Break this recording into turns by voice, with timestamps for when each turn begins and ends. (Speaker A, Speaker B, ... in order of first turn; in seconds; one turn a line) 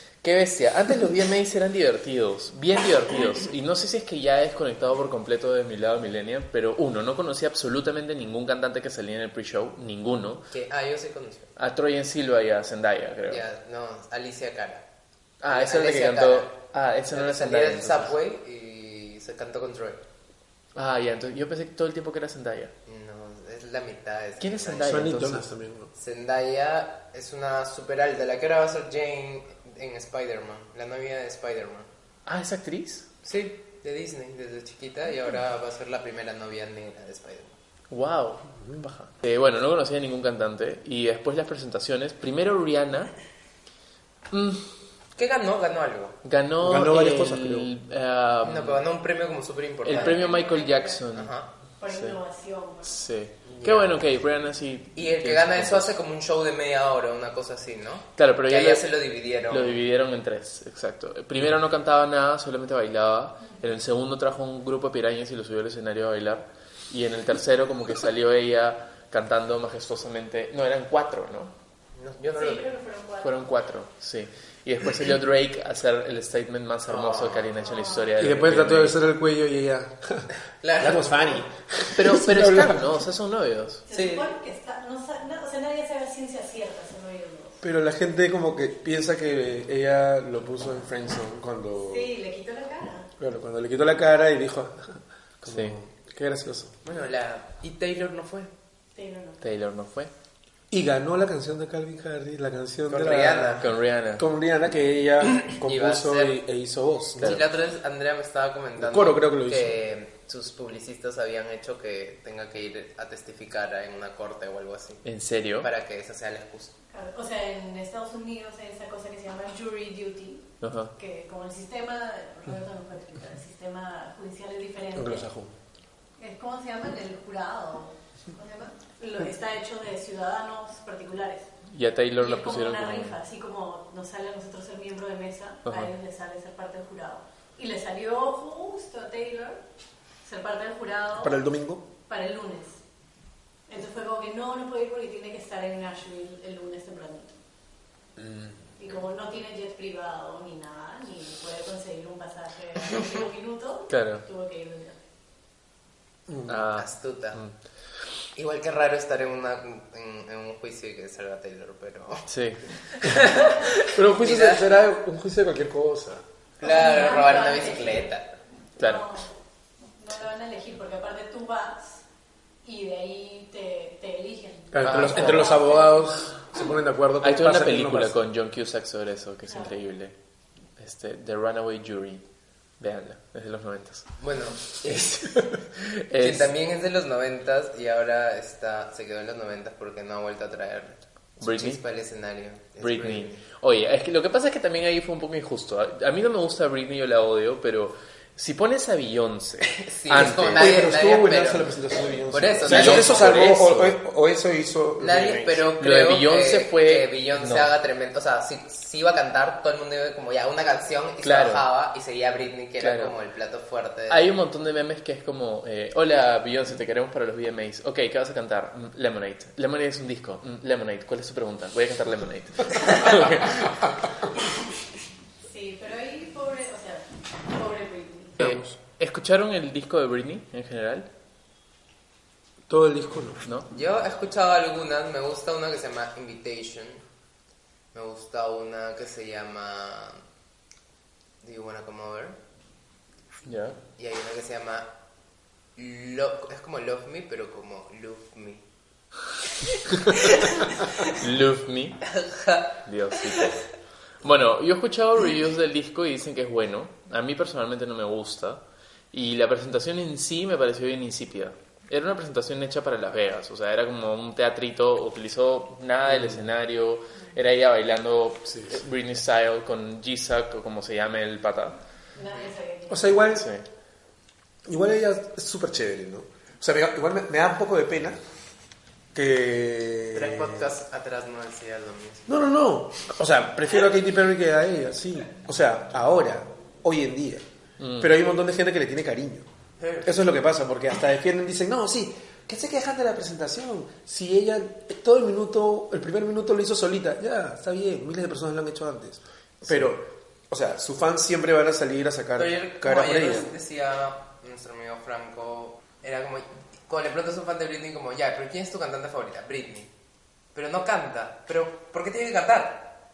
Speaker A: 0.2-10.5
Speaker B: 10.5-11.5
Speaker A: 11.6-13.4
Speaker B: 13.3-14.8
Speaker A: 15.4-18.2
Speaker B: 15.5-16.5
Speaker B: 17.1-20.0
Speaker A: 20.8-22.7
Speaker B: 22.9-25.2
Speaker A: 24.4-25.4
Speaker C: 24.8-25.9
Speaker B: 25.9-31.9
Speaker A: 32.3-33.1
Speaker B: 33.2-37.5
Speaker A: 37.9-43.1
Speaker A: 44.3-44.7
Speaker B: 45.2-46.2
Speaker A: 46.2-48.8
Speaker C: 46.6-47.7
Speaker B: 48.5-50.3
Speaker A: 49.8-51.3
Speaker D: 49.9-51.0
Speaker B: 51.1-51.5
Speaker D: 51.8-52.9
Speaker A: 51.9-52.2
Speaker A: 52.8-55.9
Speaker B: 53.5-54.0
Speaker B: 55.0-59.8
Speaker A: 58.2-59.0
Speaker A: 59.5-71.5
Speaker B: 72.0-72.7
Speaker D: 72.4-73.3
Speaker A: 73.2-79.0
Speaker B: 76.9-77.6
Speaker D: 77.6-78.1
Speaker C: 78.2-82.9
Speaker B: 80.6-81.4
Speaker A: 81.9-83.9
Speaker D: 83.9-87.6
Speaker B: 83.9-84.3
Speaker C: 87.6-92.1
Speaker D: 91.8-93.1
Speaker C: 93.2-96.8
Speaker A: 95.5-95.8
Speaker B: 96.8-98.5
Speaker D: 99.0-99.4
Speaker A: 99.4-100.1
Speaker C: 100.7-107.4
Speaker B: 102.9-103.7
Speaker A: 103.6-104.3
Speaker B: 105.2-106.4
Speaker A: 107.2-107.4
Speaker B: 107.2-115.0
Speaker C: 108.8-109.8
Speaker A: 115.0-115.7
Speaker B: 115.6-116.7
Speaker D: 116.9-120.5
Speaker A: 120.6-120.9
Speaker D: 121.0-125.3
Speaker C: 125.0-125.5
Speaker D: 126.2-131.5
Speaker A: 131.7-133.2
Speaker D: 132.2-139.6
Speaker A: 135.7-135.9
Speaker D: 140.2-141.4
Speaker C: 141.2-141.9
Speaker D: 142.1-142.8
Speaker D: 143.7-147.3
Speaker C: 148.2-148.6
Speaker D: 148.8-155.0
Speaker A: 153.9-154.2
Speaker C: 156.3-156.7
Speaker A: 156.5-157.5
Speaker B: 156.7-157.4
Speaker B: 158.3-164.7
Speaker A: 162.3-162.7
Speaker C: 163.8-166.2
Speaker B: 166.6-168.4
Speaker D: 166.6-168.1
Speaker A: 168.8-169.1
Speaker D: 168.8-172.0
Speaker D: 172.6-176.3
Speaker C: 174.7-178.2
Speaker A: 174.8-175.6
Speaker A: 177.2-180.1
Speaker D: 179.5-179.8
Speaker A: 180.8-182.2
Speaker A: 182.8-184.2
Speaker B: 184.2-185.4
Speaker A: 184.7-186.5
Speaker B: 186.2-193.4
Speaker A: 191.4-191.8
Speaker A: 192.8-200.8
Speaker B: 199.9-201.7
Speaker C: 200.5-205.6
Speaker B: 202.3-203.3
Speaker A: 202.6-204.0
Speaker B: 205.0-214.3
Speaker A: 205.5-207.7
Speaker A: 211.2-211.7
Speaker A: 212.8-213.2
Speaker A: 214.1-224.0
Speaker D: 225.5-228.4
Speaker C: 228.4-228.8
Speaker A: 228.4-231.1
Speaker C: 232.7-233.4
Speaker B: 233.7-237.0
Speaker B: 237.9-240.2
Speaker B: 241.4-242.4
Speaker A: 243.5-243.8
Speaker B: 244.0-244.9
Speaker B: 245.8-248.6
Speaker B: 249.9-251.1
Speaker A: 251.1-252.1
Speaker B: 252.1-253.6
Speaker A: 252.8-253.7
Speaker A: 254.2-271.8
Speaker C: 266.1-266.4
Speaker C: 268.5-268.8
Speaker D: 272.2-273.3
Speaker C: 272.9-273.5
Speaker A: 273.3-273.6
Speaker C: 274.7-278.2
Speaker C: 279.1-280.7
Speaker B: 280.1-282.4
Speaker C: 282.3-287.4
Speaker A: 287.8-288.1
Speaker C: 288.0-289.5
Speaker B: 289.8-290.2
Speaker C: 290.0-303.5
Speaker B: 302.4-309.9
Speaker B: 310.5-312.9